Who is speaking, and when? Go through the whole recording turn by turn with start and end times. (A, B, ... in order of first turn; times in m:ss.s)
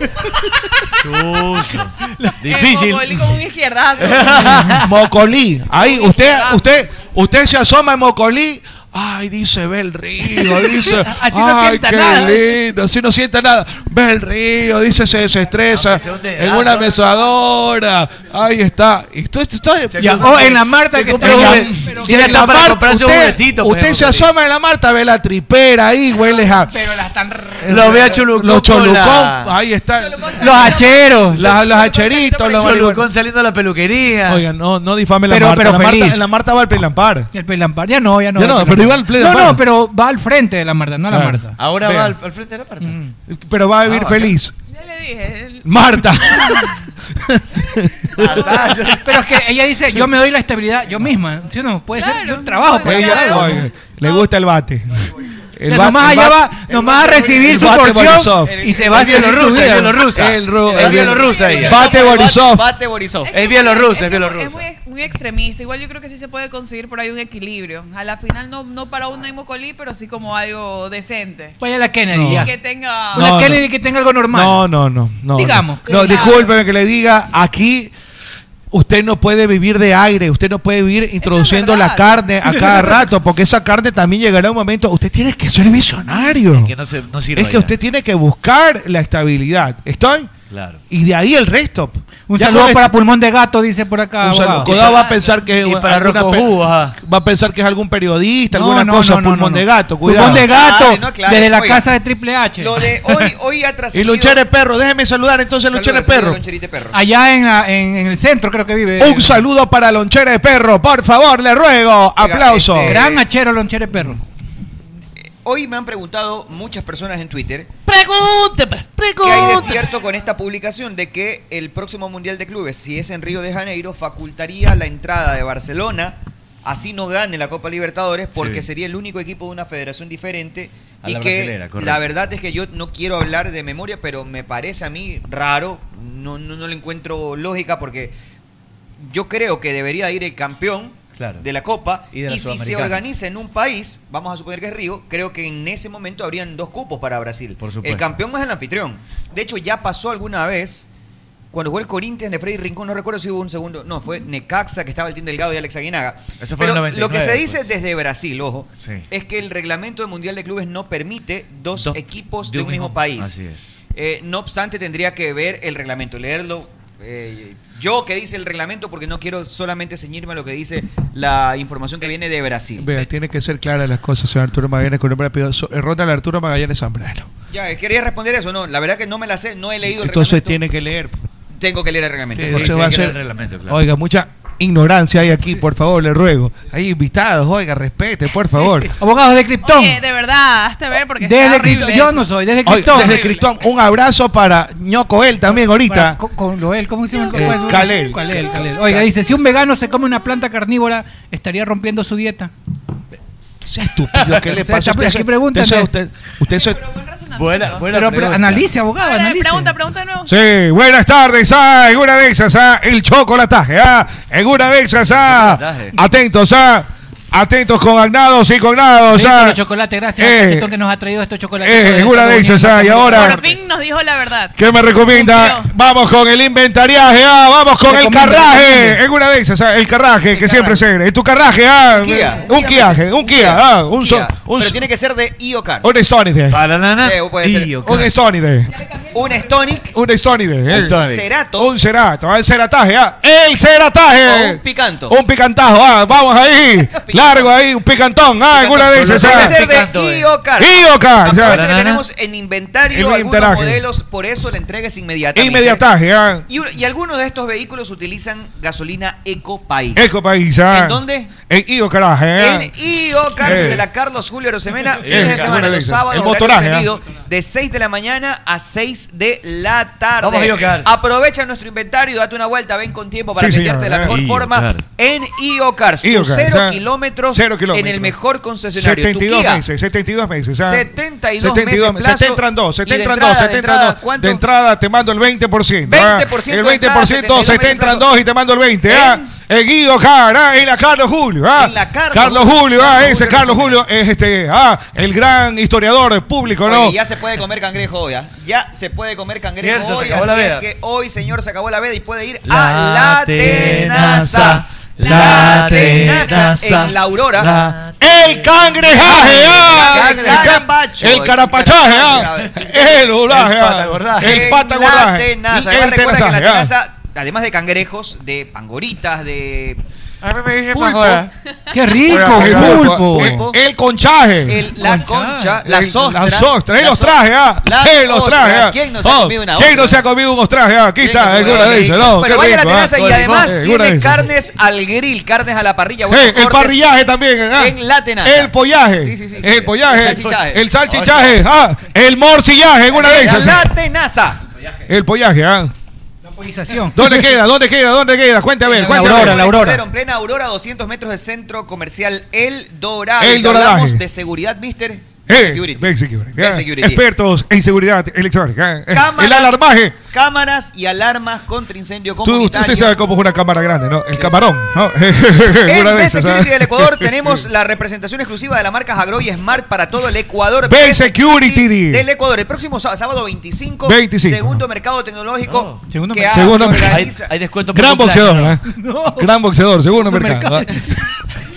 0:01.0-0:03.4 A
0:02.5-0:04.5 B
0:04.0-0:04.9 A
0:04.8-0:20.6 C
0:05.7-0:06.7 B
0:10.4-0:12.5 D
0:15.7-0:17.1 A
0:19.9-0:24.3 A
0:20.0-0:22.6 D
0:21.2-0:26.7 C
0:26.5-0:28.1 D
0:27.6-0:33.1 C
0:27.7-0:29.5 A
0:30.0-0:32.7 B
0:30.4-0:31.4 D
0:31.3-0:31.6 A
0:32.5-0:34.4 A
0:34.3-0:37.3 C
0:35.3-0:36.2 D
0:37.3-0:41.5 D
0:38.4-0:39.6 C
0:41.1-0:42.1 C
0:41.6-0:43.0 A
0:42.8-0:43.1 D
0:43.3-0:44.5 C
0:43.8-0:44.4 A
0:44.7-0:45.6 B
0:45.6-0:48.7 C
0:48.2-0:49.2 A
0:49.0-0:53.6 D
0:52.0-0:54.2 E
0:52.8-0:56.6 C
0:53.0-0:53.5 B
0:55.7-1:00.1 D
0:57.4-0:58.6 C
0:58.6-0:59.0 F
0:58.8-1:01.9 A
1:00.0-1:02.7 C
1:00.7-1:03.4 F
1:01.1-1:02.1 B
1:03.2-1:11.6 B
1:03.3-1:04.6 A
1:11.6-1:12.5 D
1:12.1-1:12.5 C
1:12.3-1:13.4 B
1:13.1-1:14.6 D
1:13.1-1:13.6 C
1:14.3-1:17.9 C
1:15.3-1:16.2 D
1:15.9-1:16.5 B
1:15.9-1:16.4 E
1:18.7-1:26.7 C
1:21.2-1:22.8 B
1:22.4-1:22.9 D
1:26.5-1:27.7 A
1:27.4-1:30.3 C
1:30.5-1:30.8 A
1:30.9-1:32.9 C
1:32.3-1:34.8 D
1:34.2-1:40.5 C
1:34.7-1:37.0 A
1:38.5-1:43.3 D
1:40.4-1:41.9 F
1:42.6-1:44.4 F
1:43.9-1:46.4 C
1:45.7-1:47.0 F
1:46.9-1:49.4 D
1:49.0-1:53.0 C
1:52.2-1:53.2 F
1:52.8-1:54.2 D
1:55.4-1:57.7 F
1:57.9-1:59.9 C
1:59.2-2:18.1 F
2:08.4-2:08.7 A
2:11.0-2:12.0 A
2:19.0-2:30.9 F
2:21.2-2:21.4 A
2:22.1-2:23.0 A
2:27.6-2:28.0 A
2:31.5-2:43.3 F
2:36.4-2:37.7 A
2:41.8-2:43.8 A
2:43.9-2:52.9 F
2:52.8-2:57.3 C
2:57.5-3:00.6 F
2:59.9-3:01.2 C
3:01.6-3:03.1 F
3:02.4-3:08.9 C
3:02.5-3:03.8 A
3:09.0-3:10.0 D
3:09.6-3:12.2 E
3:11.2-3:13.2 D
3:12.6-3:16.2 C
3:12.9-3:13.4 E
3:15.5-3:22.5 D
3:17.3-3:19.0 C
3:23.6-3:26.8 C
3:24.5-3:25.9 D
3:26.5-3:27.9 B
3:27.4-3:28.7 A
3:27.9-3:29.8 D
3:29.0-3:30.3 E
3:30.2-3:39.6 C
3:35.1-3:35.9 A
3:39.1-3:43.4 D
3:40.2-3:40.7 C
3:41.6-3:43.4 C
3:43.1-3:44.5 E
3:44.6-3:54.8 C
3:45.0-3:45.7 E
3:47.9-3:49.0 D
3:50.3-3:50.8 F
3:51.9-3:56.0 F
3:55.8-3:56.6 C
3:56.5-3:58.1 A
3:57.0-3:57.8 F
3:57.8-3:58.7 C
3:59.1-3:59.9 F
3:59.9-4:01.0 C
4:00.7-4:01.3 A
4:00.9-4:01.7 F
4:01.6-4:09.6 C
4:04.2-4:05.2 F
4:06.8-4:07.5 F
4:08.5-4:15.8 F
4:08.9-4:10.3 A
4:10.6-4:11.6 C
4:11.4-4:12.0 A
4:12.9-4:13.8 C
4:15.4-4:16.4 C
4:16.5-4:20.1 F
4:19.9-4:22.7 C
4:20.7-4:21.3 F
4:22.4-4:39.6 F
4:23.4-4:23.9 C
4:25.0-4:25.7 A
4:25.0-4:26.9 C
4:30.2-4:30.9 A
4:33.4-4:34.2 C
4:34.1-4:34.8 A
4:36.0-4:36.8 C
4:37.3-4:38.1 C
4:38.7-4:57.0 C
4:40.5-4:44.4 F
4:45.9-4:48.1 F
4:48.9-4:49.2 F
4:51.5-4:53.8 F
4:56.6-5:07.6 F
4:59.6-5:00.6 A
5:02.5-5:10.6 A
5:05.0-5:06.2 C
5:08.0-5:16.7 C
5:08.9-5:13.2 F
5:13.3-5:14.5 A
5:14.2-5:19.8 F
5:20.2-5:21.3 A
5:20.7-5:21.2 F
5:20.7-5:21.2 C
5:21.7-5:23.4 D
5:22.1-5:24.7 C
5:22.1-5:23.6 F
5:22.1-5:22.6 A
5:24.4-5:30.0 F
5:24.8-5:25.6 D
5:25.6-5:34.2 C
5:31.0-5:32.2 A
5:31.1-5:36.8 F
5:32.9-5:33.5 A
5:36.1-5:43.7 C
5:37.5-5:40.6 F
5:39.4-5:41.4 A
5:42.9-5:44.4 F
5:44.9-5:45.7 C
5:46.2-5:47.4 D
5:46.9-5:49.6 C
5:48.6-5:57.0 F
5:48.9-5:49.8 D
5:53.2-5:54.0 C
5:55.3-6:00.0 C
5:58.9-6:03.0 F
6:02.2-6:07.4 C
6:04.1-6:04.4 F
6:05.6-6:17.3 F
6:10.6-6:12.0 C
6:13.8-6:14.6 C
6:15.4-6:15.8 A
6:15.9-6:16.6 D
6:16.3-6:17.0 C
6:16.7-6:18.6 A
6:17.7-6:18.6 C
6:18.7-6:19.3 D
6:19.1-6:20.8 C
6:20.0-6:21.0 D